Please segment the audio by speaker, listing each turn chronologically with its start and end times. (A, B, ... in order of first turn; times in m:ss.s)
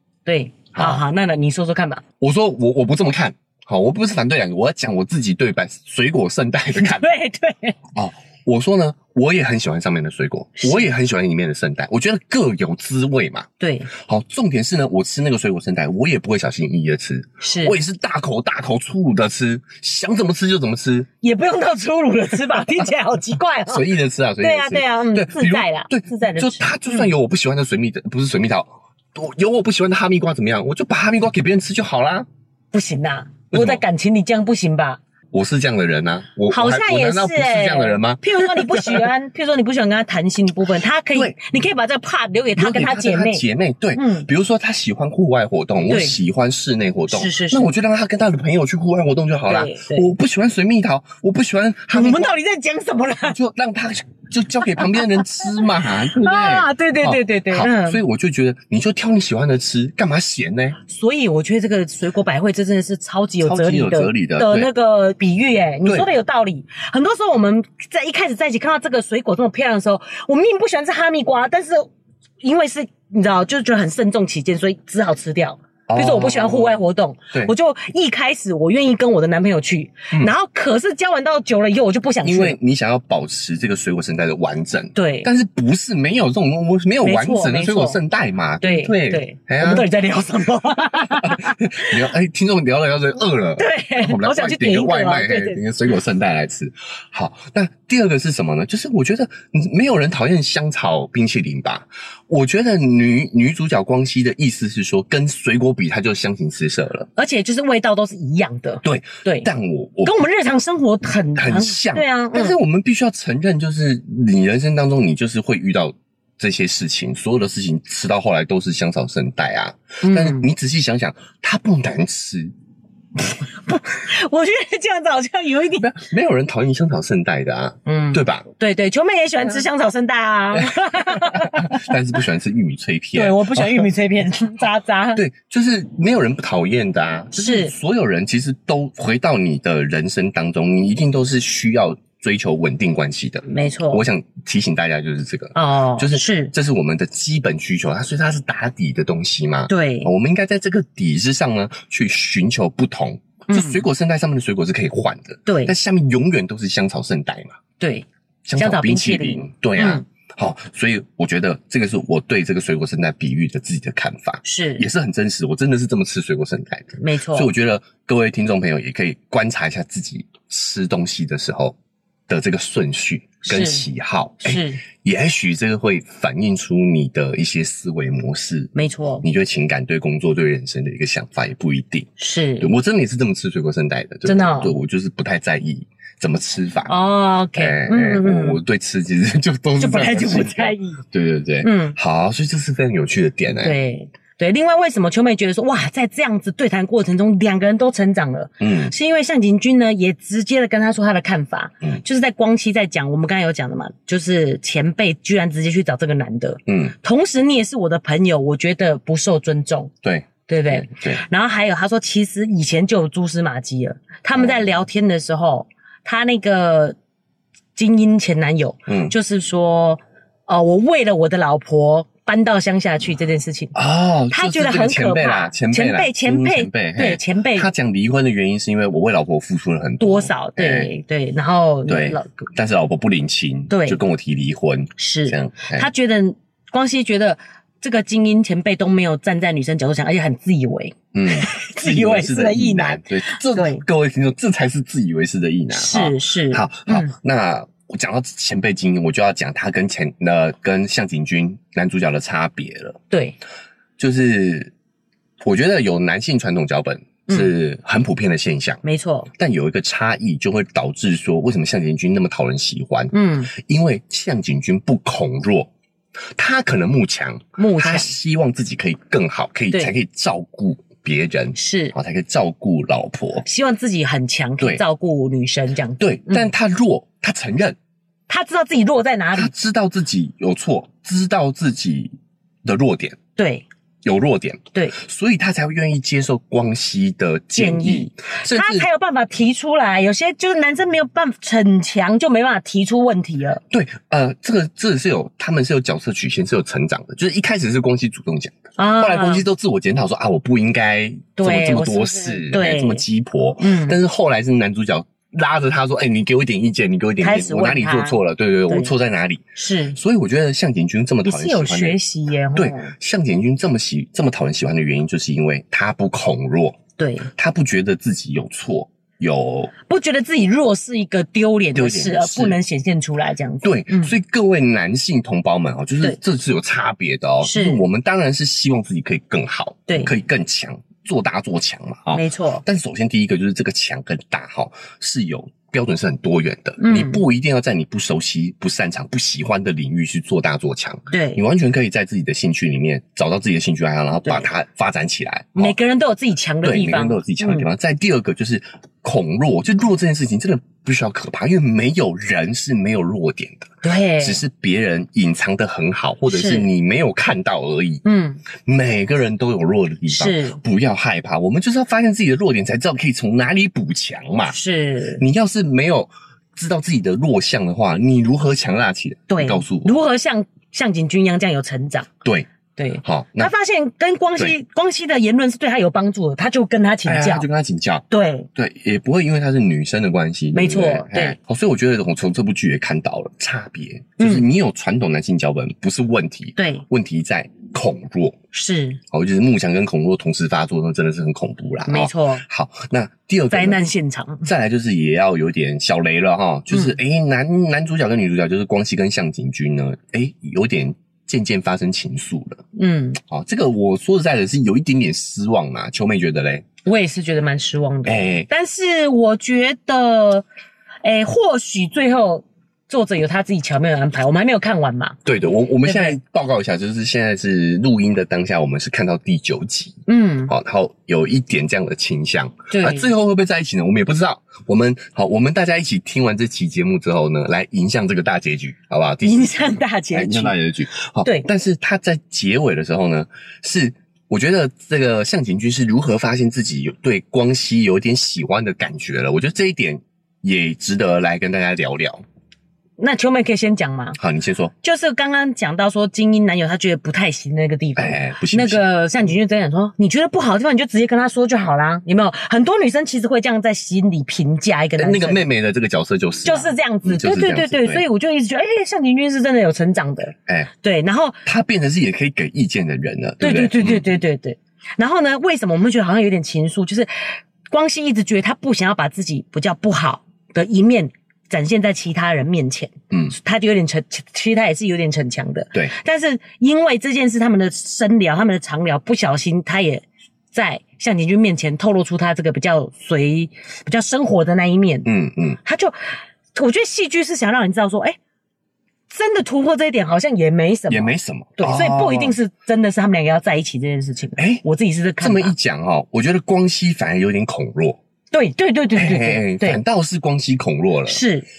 0:00.2-0:02.0 A
0:00.7-0:01.0 B
0:02.2-0:07.1 B
0:06.7-0:07.8 A
0:07.9-0:21.1 B
0:10.6-0:10.9 A
0:13.6-0:13.9 A
0:17.4-0:17.8 A
0:21.2-0:23.9 A
0:23.7-0:32.3 B
0:24.4-0:27.1 A
0:32.7-0:35.0 A
0:33.5-0:33.8 B
0:35.3-0:39.1 B
0:36.5-0:43.4 A
0:42.5-0:52.3 B
0:44.0-0:44.3 A
0:45.9-0:46.1 A
0:47.1-0:47.7 A
0:49.5-0:50.1 A
0:51.9-0:53.4 A
0:53.2-1:00.8 B
0:54.8-0:58.0 A
1:00.8-1:11.9 A
1:03.4-1:04.7 B
1:05.8-1:06.1 B
1:12.4-1:22.6 A
1:15.9-1:16.8 B
1:22.2-1:29.9 B
1:24.9-1:25.3 A
1:27.0-1:28.0 A
1:28.6-1:32.0 A
1:31.0-1:47.1 B
1:33.6-1:35.6 A
1:47.2-1:49.5 A
1:48.8-1:50.2 B
1:50.0-1:52.6 A
1:51.4-2:02.5 B
2:00.0-2:00.5 A
2:03.2-2:05.9 A
2:05.8-2:08.4 B
2:07.8-2:11.9 A
2:10.5-2:13.9 B
2:13.1-2:15.2 A
2:15.1-2:37.6 B
2:17.3-2:17.7 A
2:23.5-2:24.0 A
2:25.5-2:26.5 A
2:29.7-2:30.1 A
2:33.5-2:33.8 A
2:35.4-2:35.7 A
2:37.8-2:40.0 A
2:38.4-2:51.8 B
2:44.4-2:44.8 A
2:47.0-2:47.5 A
2:52.3-3:06.9 B
2:53.4-2:53.9 A
2:54.4-2:54.8 A
2:58.7-2:59.2 A
3:02.2-3:02.7 A
3:04.2-3:04.7 A
3:06.9-3:08.6 A
3:07.5-3:13.8 B
3:09.8-3:11.0 A
3:11.6-3:12.0 A
3:13.6-3:29.9 A
3:18.6-3:18.9 B
3:26.7-3:26.9 B
3:30.0-3:31.2 B
3:30.5-3:37.0 A
3:34.3-3:34.7 B
3:37.8-3:43.8 A
3:38.9-3:39.1 B
3:43.7-3:50.9 B
3:44.3-3:47.7 A
3:50.0-3:52.5 A
3:51.8-3:55.9 B
3:53.7-3:54.0 A
3:55.0-4:03.8 A
4:01.1-4:13.0 B
4:05.7-4:07.1 A
4:13.1-4:13.4 A
4:14.0-4:14.7 B
4:15.4-4:18.8 B
4:18.8-4:19.3 A
4:19.4-4:25.7 B
4:23.1-4:23.5 A
4:26.3-4:33.4 B
4:27.6-4:28.1 A
4:31.5-4:31.9 A
4:33.4-4:36.5 A
4:36.0-4:37.8 B
4:38.3-4:39.5 A
4:39.3-4:42.1 B
4:42.6-4:43.2 B
4:43.4-4:43.6 A
4:44.0-4:48.9 B
4:47.5-4:53.6 A
4:53.7-5:12.0 B
4:58.8-4:59.4 A
5:01.4-5:03.0 A
5:03.6-5:04.0 A
5:07.2-5:08.9 A
5:09.6-5:10.0 A
5:11.2-5:12.9 A
5:12.5-5:16.8 B
5:17.0-5:17.3 A
5:17.3-5:19.7 B
5:19.9-5:24.1 A
5:21.7-5:22.6 B
5:23.6-5:45.8 B
5:27.4-5:27.8 A
5:29.9-5:30.1 A
5:32.1-5:32.6 A
5:36.8-5:37.2 A
5:41.1-5:41.4 A
5:45.6-5:47.7 A
5:46.6-5:58.0 B
5:53.8-5:54.4 A
5:56.3-5:56.7 A
5:58.0-5:58.4 A
5:58.6-6:04.6 B
6:00.1-6:00.6 A
6:04.5-6:05.2 A
6:05.2-6:09.9 B
6:09.3-6:12.1 A
6:12.8-6:17.5 A
6:13.0-6:13.5 B
6:17.0-6:28.4 B
6:18.1-6:18.5 A
6:20.5-6:21.4 A
6:24.2-6:24.4 A
6:26.6-6:26.8 A
6:28.5-6:29.0 A
6:29.1-6:33.8 B
6:31.9-6:32.4 A
6:33.5-6:34.5 A
6:34.4-6:42.6 B
6:42.7-6:43.2 A
6:43.2-6:46.6 B
6:46.8-6:50.4 A
6:48.0-6:48.5 B
6:51.0-6:55.2 A
6:55.2-7:22.2 B
6:55.8-6:56.2 A
7:00.1-7:00.5 A
7:02.7-7:03.1 A
7:09.2-7:10.5 A
7:23.0-7:24.2 A
7:24.2-7:24.7 B
7:24.8-7:35.4 A
7:28.0-7:28.8 B
7:35.0-7:38.0 B
7:36.4-7:41.4 A
7:41.4-7:44.1 B
7:43.4-8:05.1 A
8:05.0-8:05.6 B
8:05.6-8:08.2 A
8:09.1-8:15.5 A
8:10.9-8:12.4 B
8:14.4-8:14.6 B
8:15.2-8:18.0 B
8:18.3-8:19.8 A
8:18.9-8:21.2 B
8:21.1-8:21.4 A